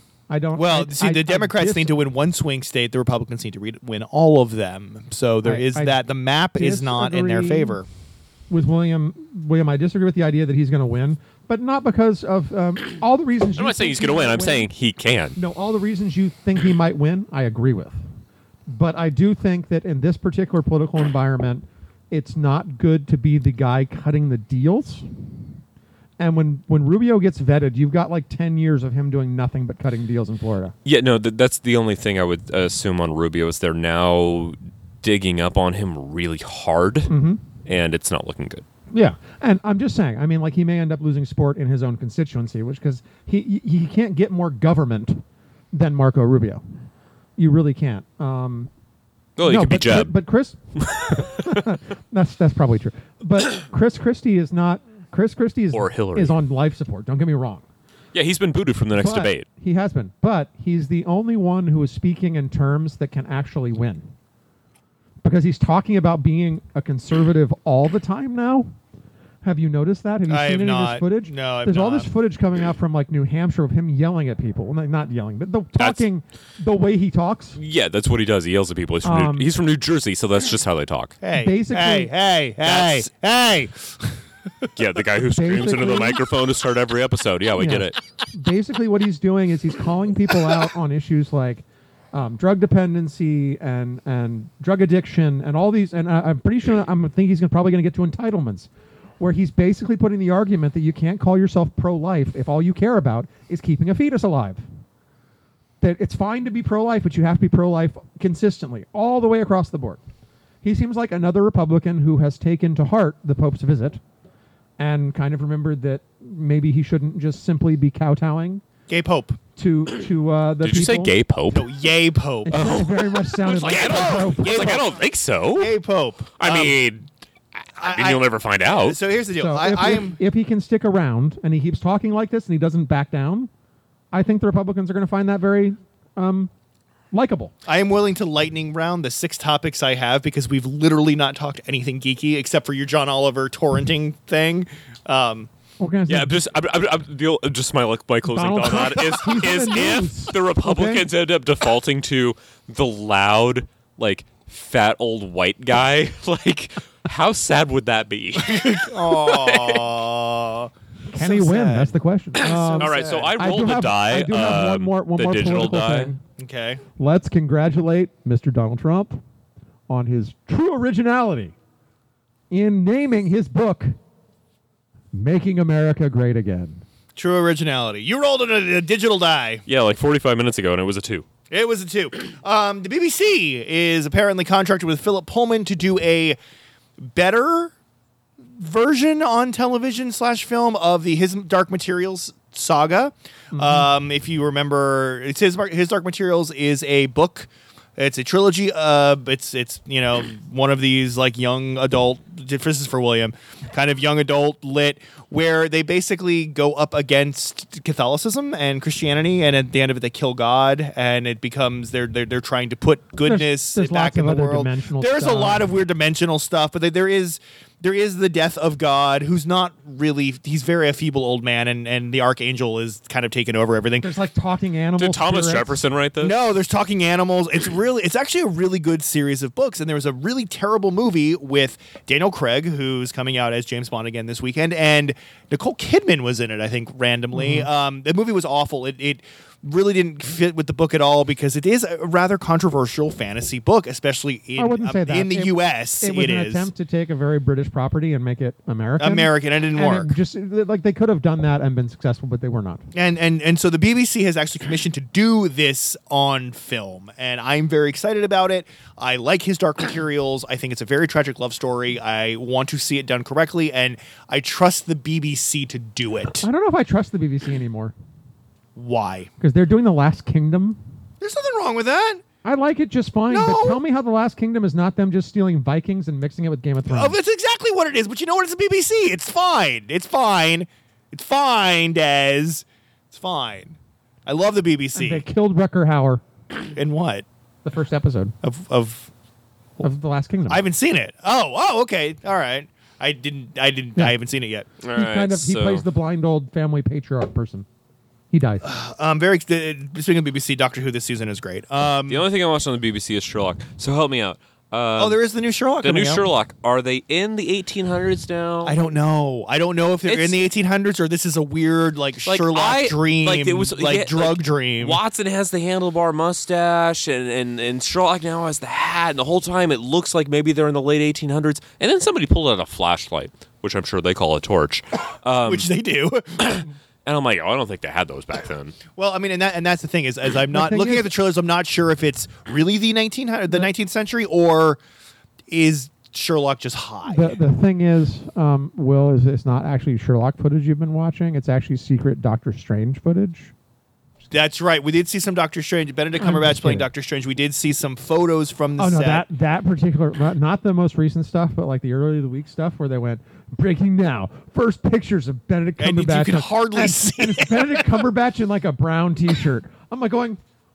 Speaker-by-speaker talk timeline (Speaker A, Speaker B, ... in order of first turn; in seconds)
Speaker A: 0.3-1.9, 5.4-6.0, 6.6-7.8, 8.5-14.7, 15.3-18.0, 18.7-25.1, 26.2-30.7, 37.1-37.4, 38.9-46.6, 47.4-48.7, 49.4-57.6, 58.9-64.0, 65.2-68.7, 69.4-77.6, 79.0-79.5, 81.3-82.1, 85.3-86.2, 87.6-104.6, 105.8-110.0, 110.6-114.0, 114.8-118.6, 119.6-121.1, 122.5-124.8, 129.3-133.5, 134.1-136.5, 137.1-137.5, 145.8-146.4, 148.3-151.1, 161.1-166.2, 167.0-169.2, 169.9-171.5, 172.5-173.9, 175.1-176.8, 193.5-193.9, 213.2-215.7, 224.0-225.8, 237.3-237.7, 244.6-252.8, 266.4-267.9, 269.4-270.8, 272.4-277.2, 284.9-286.2, 287.6-288.3, 289.8-290.7, 294.9-297.7, 298.3-298.7, 330.5-331.1, 337.1-343.5, 346.2-346.9, 348.8-360.4
Speaker B: 0.6-7.8, 70.3-72.1, 81.2-84.1, 118.9-119.4, 121.5-122.7, 123.5-125.0, 125.6-126.8, 127.8-130.2, 137.7-145.5, 158.4-163.3, 166.4-166.8, 177.2-179.6, 181.5-186.4, 187.0-187.7, 188.6-224.1, 226.2-246.7, 249.0-250.2, 252.9-266.4, 268.8-269.3, 271.2-272.2, 273.3-273.8, 276.9-285.2, 286.8-287.2, 288.4-289.1, 290.5-294.7, 298.6-302.2, 305.0-306.2, 308.6-315.0, 325.4-326.6, 328.9-334.8, 335.5-337.4, 344.3-349.2, 355.8-358.0
Speaker C: 13.6-15.4, 30.8-37.1, 37.6-38.6, 49.4-50.1, 50.8-51.6, 55.7-56.3, 58.1-59.5, 75.8-76.0, 77.5-81.2, 82.6-83.1, 84.8-88.0, 120.6-121.7, 122.5-125.7, 126.4-127.1, 127.8-129.0, 146.1-159.9, 162.4-166.1, 179.7-181.2, 225.0-226.3, 294.8-295.8, 302.1-305.2, 305.8-308.8, 310.1-310.4, 312.2-325.7, 326.4-328.8